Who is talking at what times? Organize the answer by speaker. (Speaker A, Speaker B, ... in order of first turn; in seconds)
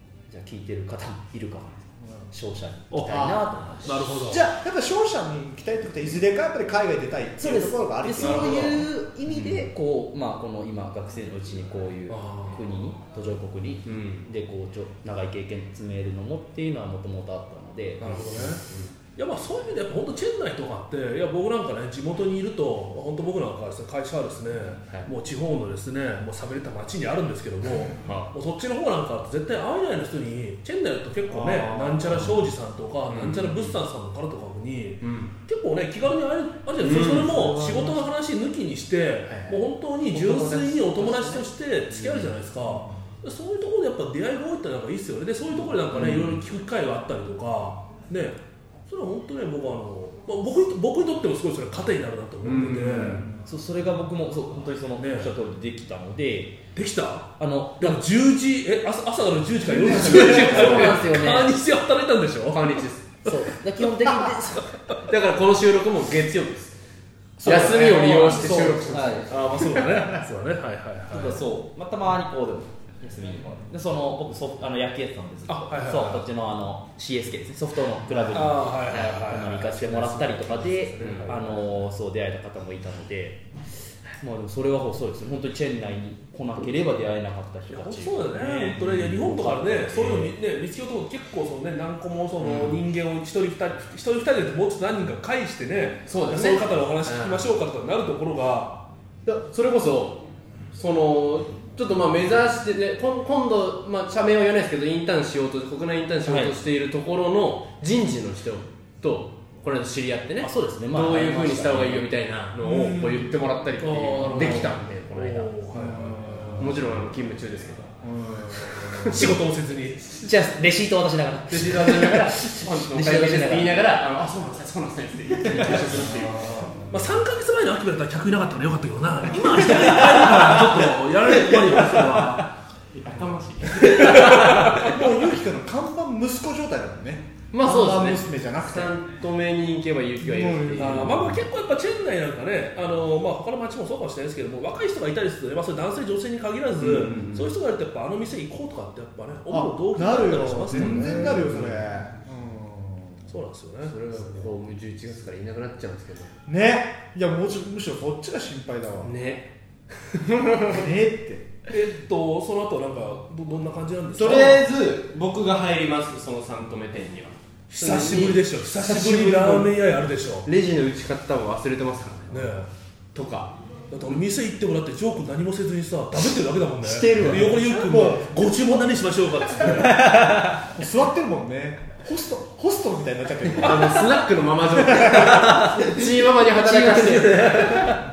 Speaker A: 0.3-4.1, 7.4-18.6, 53.4-56.6, 57.4-58.0, 59.9-61.5, 63.2-65.0, 67.5-67.9, 68.6-69.3, 71.1-83.4, 84.2-90.3, 106.2-106.5, 110.4-112.1, 120.1-123.9, 179.7-180.6, 185.4-185.8, 186.6-187.8
Speaker B: 2.9-4.4, 8.2-8.5, 12.1-12.6, 18.0-18.6, 19.1-53.2, 55.0-55.3, 56.7-62.8, 67.4-68.6, 69.3-71.4, 75.5-76.2, 78.3-81.6, 87.7-98.8, 113.8-116.7, 119.0-120.0, 126.2-132.5, 133.8-134.9, 140.8-151.8, 153.3-153.9, 161.7-164.6, 167.7-170.5, 172.3-172.7, 173.9-180.1
Speaker C: 3.1-3.4, 4.2-8.8, 36.9-38.0, 67.4-69.2, 112.6-113.3, 115.7-116.9, 118.0-119.3, 125.8-126.7, 133.8-138.9, 140.2-141.4, 149.5-153.3, 156.5-159.1, 160.7-161.5, 177.0-178.3, 180.7-184.2, 184.8-185.6
Speaker D: 8.2-8.7, 9.3-9.6, 13.8-14.3, 18.1-18.9, 28.0-28.3, 31.4-32.4, 33.1-33.8, 35.0-35.3, 36.8-37.3, 39.3-39.6, 40.1-42.3, 45.9-46.4, 52.4-53.3, 59.7-61.1, 62.5-63.1, 65.1-66.8, 67.4-70.0, 81.0-81.3, 92.4-92.8, 96.0-97.4, 99.2-115.5, 116.6-117.9, 118.6-119.3, 121.5-126.7, 130.2-130.6, 131.6-132.2, 132.9-135.0, 137.5-141.3, 146.8-147.5, 150.7-151.8, 153.8-156.3, 159.0-160.8, 164.1-169.7, 170.4-172.6, 173.1-173.6, 176.8-177.7, 183.6-187.9